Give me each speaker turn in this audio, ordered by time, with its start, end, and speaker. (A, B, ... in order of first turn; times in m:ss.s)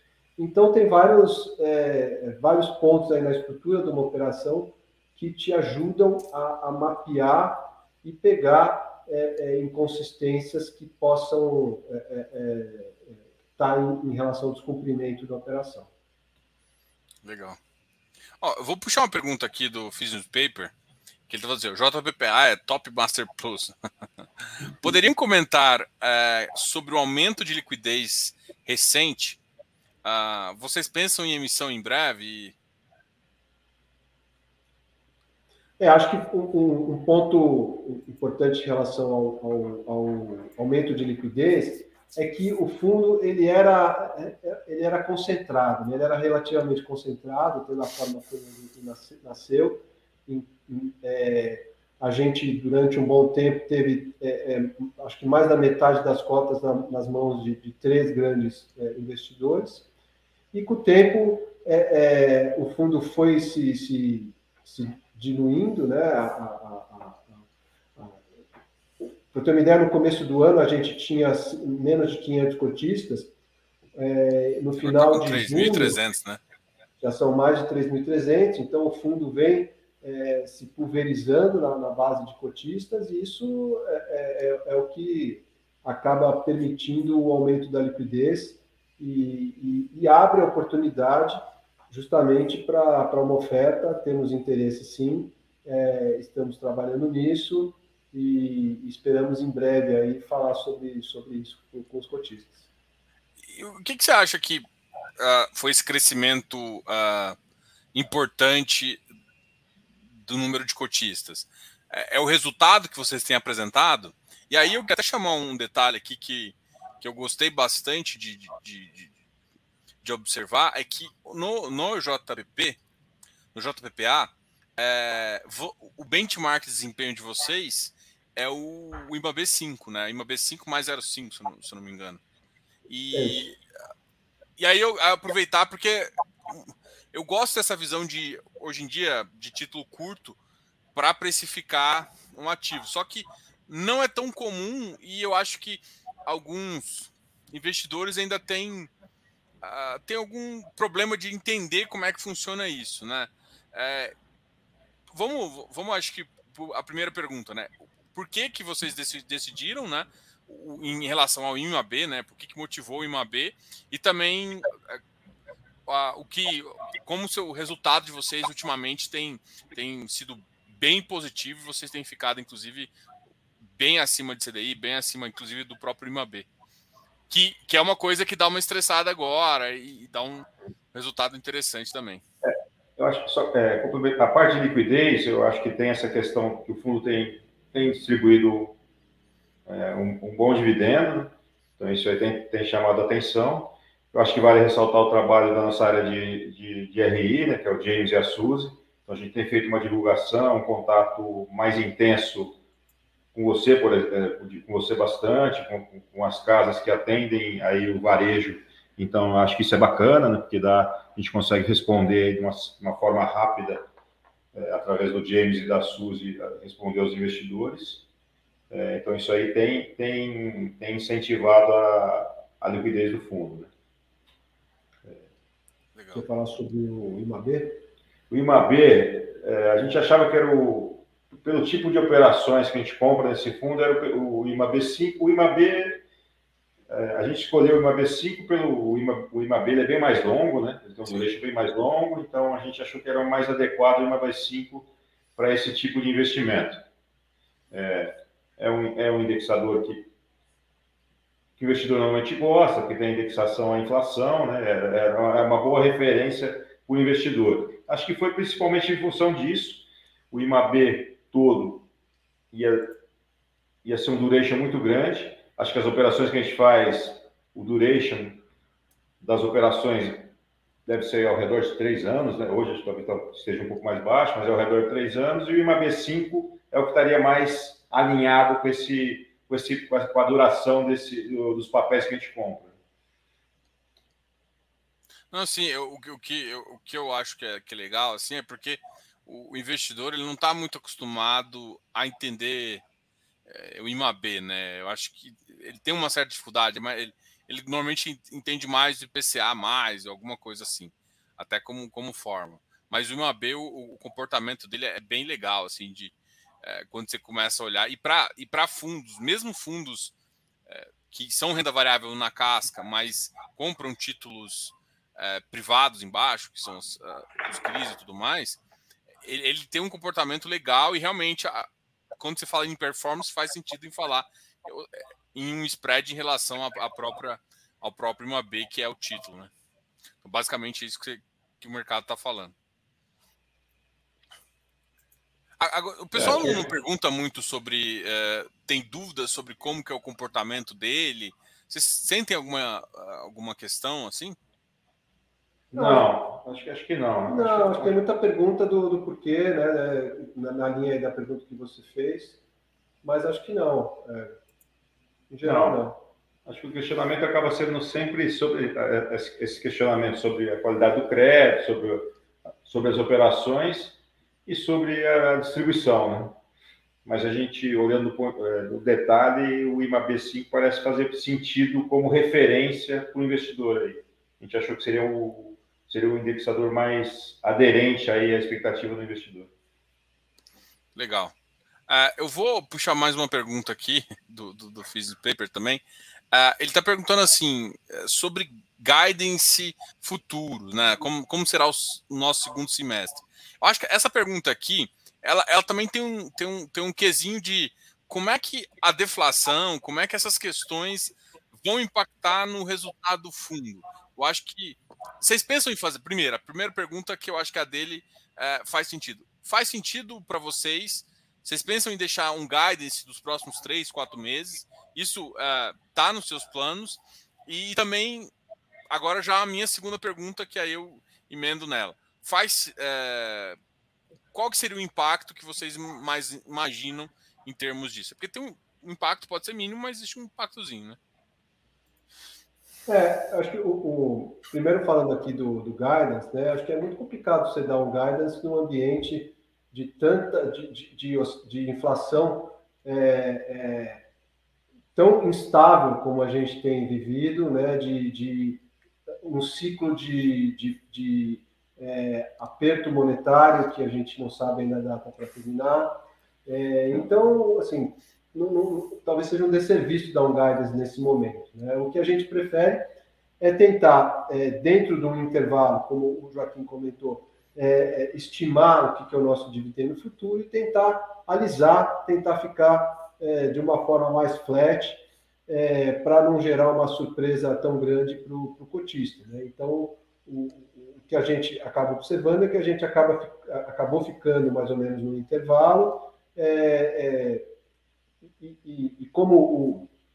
0:00.4-0:15.9 A
0:17.2-0:17.6 B
0:18.4-0:20.7 B
0:21.3-0:23.8 B
0:24.4-0:29.4 B
0:30.0-0:32.6 B
0:35.8-0:59.9 A
1:00.5-1:07.4 A
1:09.0-1:13.3 A
1:14.0-1:16.0 A
1:14.8-1:16.4 B
1:17.0-1:42.6 A
1:43.5-1:44.6 B
1:45.2-1:47.4 B
1:47.9-1:49.0 B
1:50.2-1:59.1 B
2:00.0-2:02.8 B
2:03.6-2:12.2 B
2:12.9-2:13.6 B
2:13.1-2:13.4 A
2:14.6-2:20.4 B
2:20.9-2:28.9 B
2:29.6-2:34.1 B
2:35.1-2:45.0 B
2:45.9-2:52.9 B
2:53.6-2:56.5 B
2:57.3-3:02.2 B
3:02.4-3:08.8 C
3:09.6-3:22.6 C
3:23.3-3:33.8 C
3:34.5-3:38.1 C
3:38.7-3:43.7 C
3:45.9-3:46.3 B
3:46.1-3:47.8 A
3:48.3-3:56.0 C
3:56.9-4:06.8 C
4:07.7-4:10.1 C
4:11.6-4:21.9 C
4:22.5-4:23.0 C
4:23.8-4:28.4 C
4:29.2-4:30.3 C
4:30.9-4:42.7 C
4:45.3-4:52.8 B
4:53.5-5:10.1 B
5:10.7-5:18.6 B
5:19.2-5:29.5 B
5:30.2-5:32.5 B
5:35.6-5:44.4 B
5:36.1-5:36.6 C
5:45.7-5:46.1 A
5:45.7-5:48.0 C
5:47.3-5:52.4 A
5:53.0-5:54.3 A
5:55.3-5:56.0 A
5:55.4-5:55.8 C
5:56.5-6:02.1 C
6:02.6-6:06.4 C
6:07.0-6:19.5 C
6:20.9-6:21.3 B
6:21.9-6:58.3 B
6:58.9-7:03.6 B
7:04.3-7:11.0 B
7:12.9-7:24.0 A
7:24.9-7:28.6 A
7:29.2-7:42.9 A
7:43.4-8:07.5 A
8:08.4-8:09.9 A